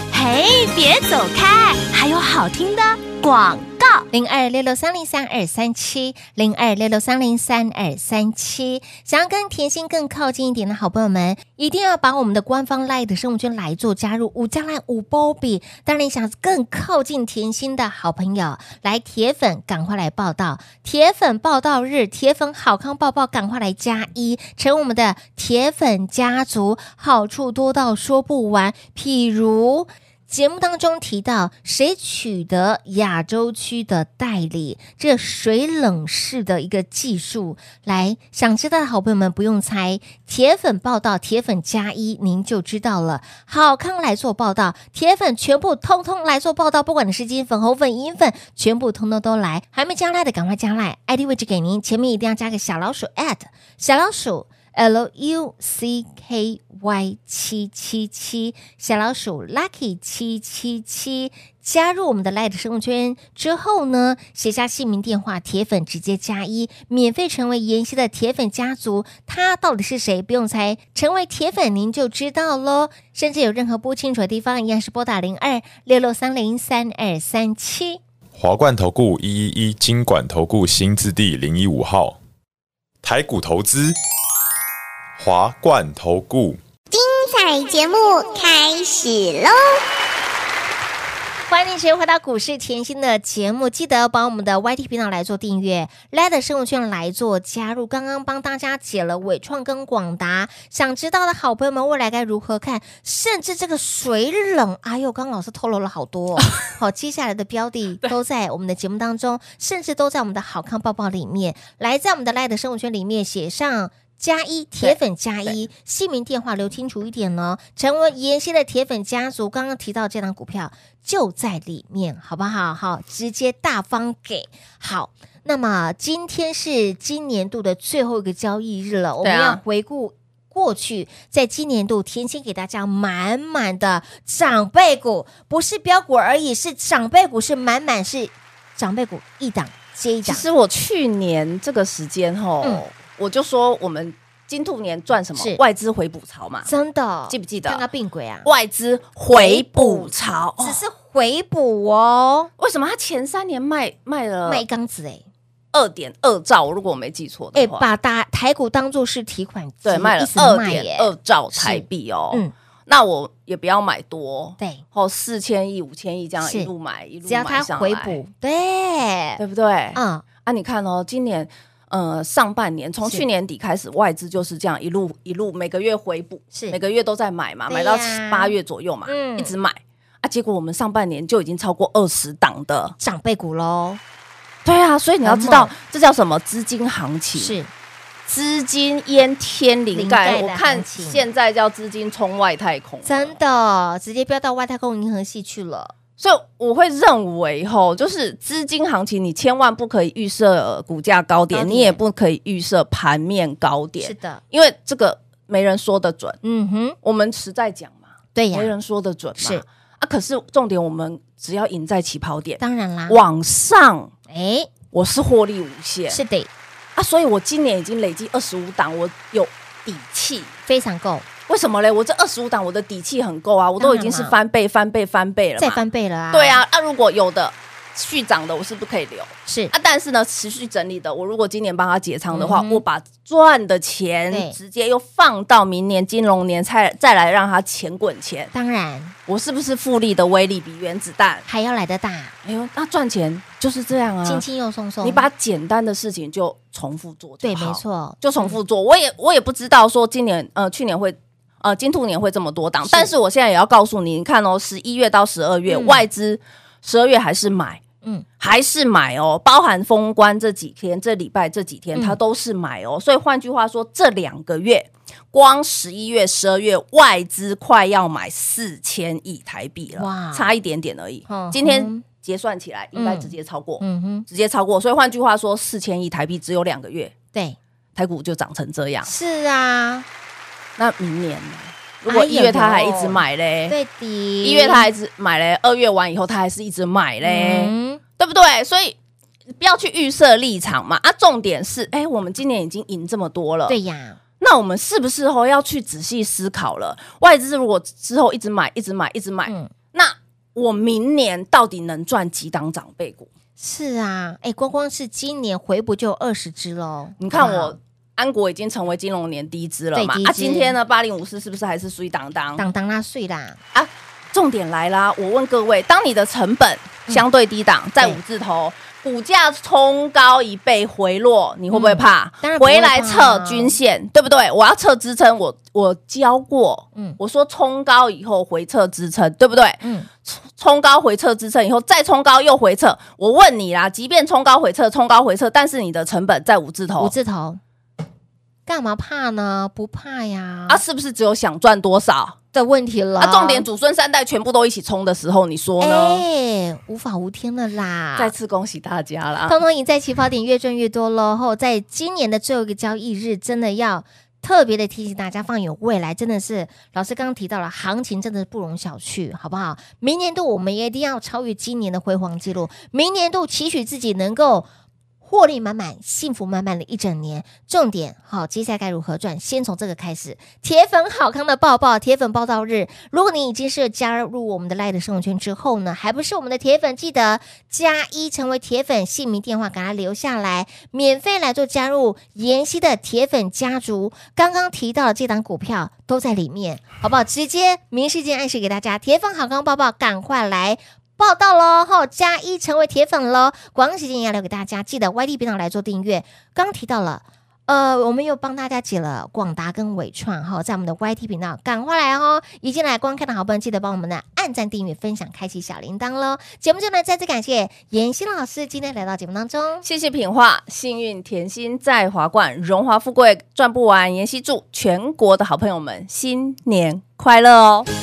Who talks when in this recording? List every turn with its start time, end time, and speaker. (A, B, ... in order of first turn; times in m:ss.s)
0:00.1-0:04.0 A
0:04.1-1:18.0 B
1:18.4-1:22.2 C
1:23.0-1:24.0 C
1:25.2-1:26.6 C
1:26.9-1:29.8 D
1:31.5-2:20.4 B
1:54.8-1:55.6 E
2:09.2-2:09.6 E
2:20.2-2:26.7 E
2:26.6-2:28.5 B
2:27.3-2:27.8 E
2:28.4-2:30.8 E
2:29.3-2:32.5 B
2:32.6-2:34.6 E
2:34.4-2:35.2 B
2:35.7-2:37.9 E
2:37.6-2:42.5 B
2:39.8-2:48.2 E
2:44.6-2:44.8 B
2:46.4-2:46.7 B
2:47.3-2:49.4 B
2:49.4-3:03.0 E
2:50.0-2:50.2 B
2:56.5-2:56.8 B
2:57.7-2:59.5 B
3:03.0-3:04.0 B
3:04.6-3:07.6 E
3:05.2-3:05.8 B
3:07.4-3:07.7 B
3:08.3-3:13.4 E
3:09.9-3:11.2 B
3:13.0-3:15.9 B
3:16.2-3:26.4 E
3:21.5-3:22.0 B
3:24.0-3:24.4 B
3:26.4-3:27.0 B
3:27.0-3:34.1 E
3:28.4-3:28.7 B
3:29.4-3:29.6 B
3:32.6-3:33.2 B
3:34.3-3:34.7 B
3:34.9-3:36.2 E
3:36.1-3:36.5 B
3:37.0-3:40.5 E
3:40.7-3:41.3 B
3:41.5-3:58.5 E
3:43.8-3:44.4 B
3:45.6-3:46.6 B
3:49.5-3:49.7 B
3:52.3-3:52.8 B
3:54.3-3:54.6 B
3:58.5-3:59.1 B
3:59.3-4:01.4 E
4:01.5-4:02.4 B
4:02.4-4:04.4 E
4:04.2-4:05.3 B
4:05.0-4:17.8 E
4:07.4-4:08.6 B
4:12.8-4:13.1 B
4:15.7-4:16.0 B
4:18.4-4:37.1 E
4:30.0-4:30.5 B
4:31.3-4:32.0 B
4:33.0-4:34.3 B
4:38.0-4:39.1 E
4:39.0-4:40.1 B
4:40.8-4:43.8 E
4:42.1-4:44.9 B
4:44.4-4:49.0 E
4:47.2-4:48.0 B
4:49.6-4:53.8 E
4:53.7-4:54.2 B
4:54.4-5:03.3 E
5:03.6-5:07.8 B
5:07.2-5:12.6 E
5:10.0-5:10.8 B
5:12.6-5:13.6 B
5:13.7-5:37.1 E
5:21.7-5:23.8 B
5:29.8-5:30.1 B
5:37.0-5:37.6 B
5:38.7-5:40.8 B
5:40.7-5:42.4 E
5:42.5-5:43.7 B
5:43.2-5:46.2 E
5:45.8-5:48.3 B
5:48.2-5:49.6 E
5:49.5-6:04.7 B
6:05.2-6:49.8 B
6:49.8-6:57.9 E